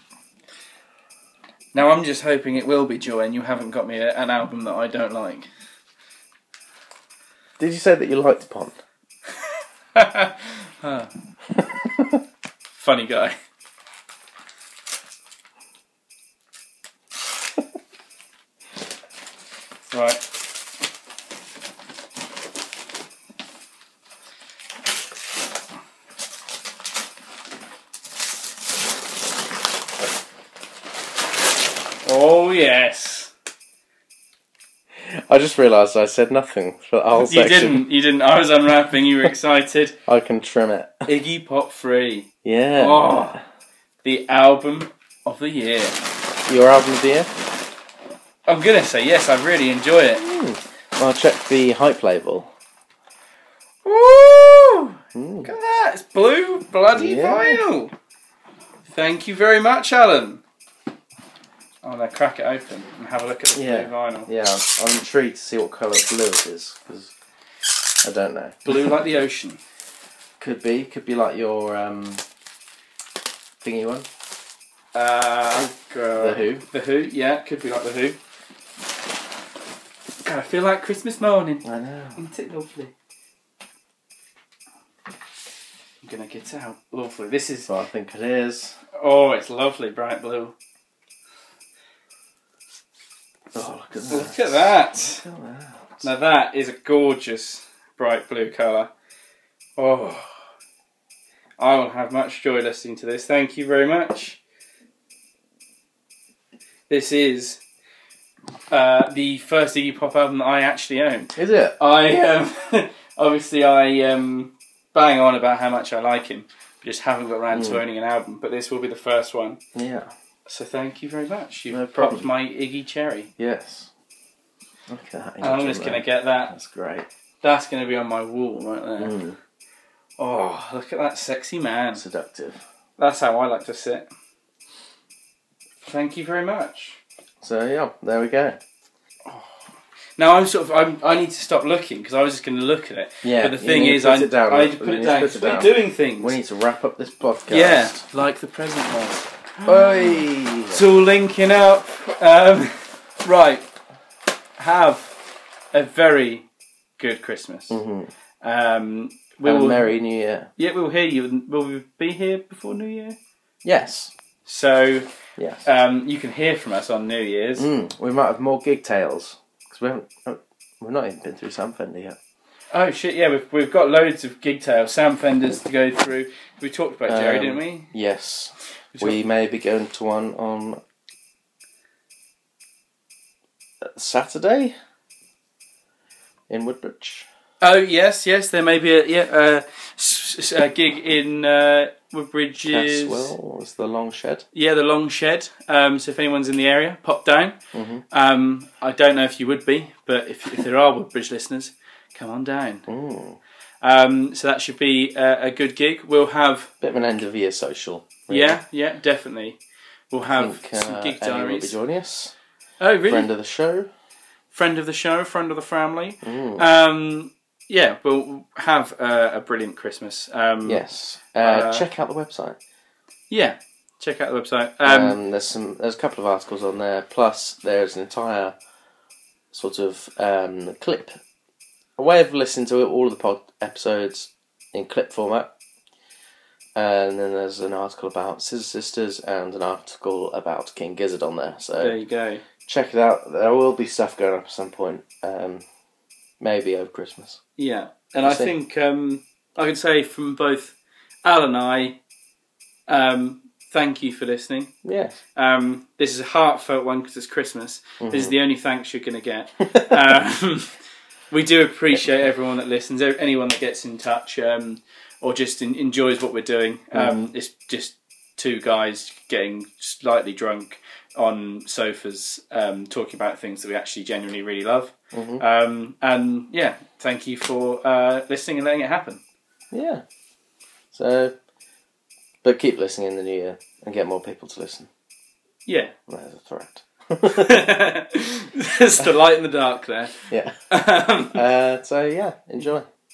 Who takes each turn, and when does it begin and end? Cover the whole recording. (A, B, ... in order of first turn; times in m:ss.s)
0:01.7-0:05.5 A
0:07.6-0:08.8 B
0:10.0-0:11.1 A
0:11.6-0:12.2 B
0:12.8-0:13.4 A
0:19.9-0:20.2 A
0:32.0-0:33.3 A
0:35.0-0:37.8 B
0:37.2-0:40.0 A
0:40.1-0:41.1 B
0:41.1-0:43.4 A
0:42.4-0:43.4 B
0:44.0-0:46.0 A
0:46.5-0:47.3 B
0:48.5-0:50.2 A
0:50.2-0:52.5 B
0:53.8-0:57.9 A
0:55.2-0:55.5 B
0:56.9-0:57.6 B
0:58.9-1:00.4 A
1:01.8-1:04.3 A
1:03.6-1:07.1 B
1:08.0-1:09.0 B
1:08.7-1:09.6 A
1:10.4-1:12.2 B
1:13.6-1:14.1 B
1:14.9-1:18.2 A
1:16.2-1:16.6 B
1:20.2-1:21.6 A
1:21.6-1:22.2 B
1:22.2-1:22.9 A
1:26.0-1:27.7 A
1:27.7-1:28.8 B
1:29.0-1:30.6 A
1:33.5-1:36.1 B
1:34.1-1:35.2 A
1:36.0-1:38.9 A
1:39.8-1:40.3 A
1:41.6-1:44.4 A
1:46.9-1:47.6 A
1:48.7-1:59.6 A
1:51.4-1:51.8 B
1:57.5-1:57.8 B
1:59.8-2:00.1 B
2:00.5-2:03.3 A
2:01.7-2:02.3 B
2:03.4-2:03.9 B
2:04.9-2:07.1 B
2:05.4-2:06.5 A
2:07.4-2:09.2 A
2:09.0-2:09.4 B
2:10.2-2:12.0 A
2:12.0-2:12.6 B
2:13.0-2:14.1 A
2:15.8-2:17.0 A
2:17.4-2:18.6 B
2:19.3-2:19.5 A
2:20.2-2:26.4 A
2:23.2-2:28.0 B
2:27.5-2:33.7 A
2:29.6-2:30.8 B
2:34.6-2:35.2 A
2:35.7-2:36.5 A
2:37.0-2:37.8 A
2:37.7-2:38.1 B
2:38.4-2:39.9 A
2:39.4-2:40.5 B
2:40.6-2:43.2 A
2:43.6-2:44.1 B
2:44.5-2:45.1 A
2:45.4-2:45.7 B
2:45.6-2:47.7 A
2:47.6-2:52.2 B
2:52.7-2:57.9 A
2:57.1-3:00.8 B
2:58.9-2:59.2 A
3:03.9-3:04.7 B
3:06.5-3:07.3 B
3:07.6-3:13.3 A
3:12.7-3:14.4 B
3:14.5-3:17.6 A
3:17.7-3:18.0 B
3:18.1-3:22.9 A
3:22.9-3:23.4 B
3:23.8-3:26.7 A
3:26.8-3:28.6 B
3:28.3-3:29.6 A
3:30.1-3:31.8 A
3:30.3-3:32.3 B
3:32.8-3:33.3 A
3:33.0-3:33.9 B
3:34.5-3:40.8 A
3:36.2-3:36.6 B
3:40.6-3:42.6 B
3:41.4-3:41.8 A
3:43.3-3:45.2 A
3:44.8-3:48.6 B
3:49.5-3:51.2 B
3:52.0-3:55.5 B
3:56.8-4:02.0 B
4:01.8-4:02.4 A
4:02.6-4:05.6 B
4:06.4-4:07.4 B
4:07.6-4:12.0 A
4:08.2-4:08.5 B
4:12.9-4:14.7 A
4:14.8-4:15.2 B
4:15.4-4:20.7 A
4:18.0-4:18.4 B
4:19.7-4:20.1 B
4:21.3-4:39.2 A
4:26.9-4:27.2 B
4:35.1-4:35.4 B
4:39.7-4:40.0 B
4:40.9-4:41.3 B
4:42.4-4:44.9 B
4:45.7-4:45.9 A
4:46.1-4:47.7 B
4:47.3-4:51.4 A
4:50.3-4:50.6 B
4:51.3-4:52.9 B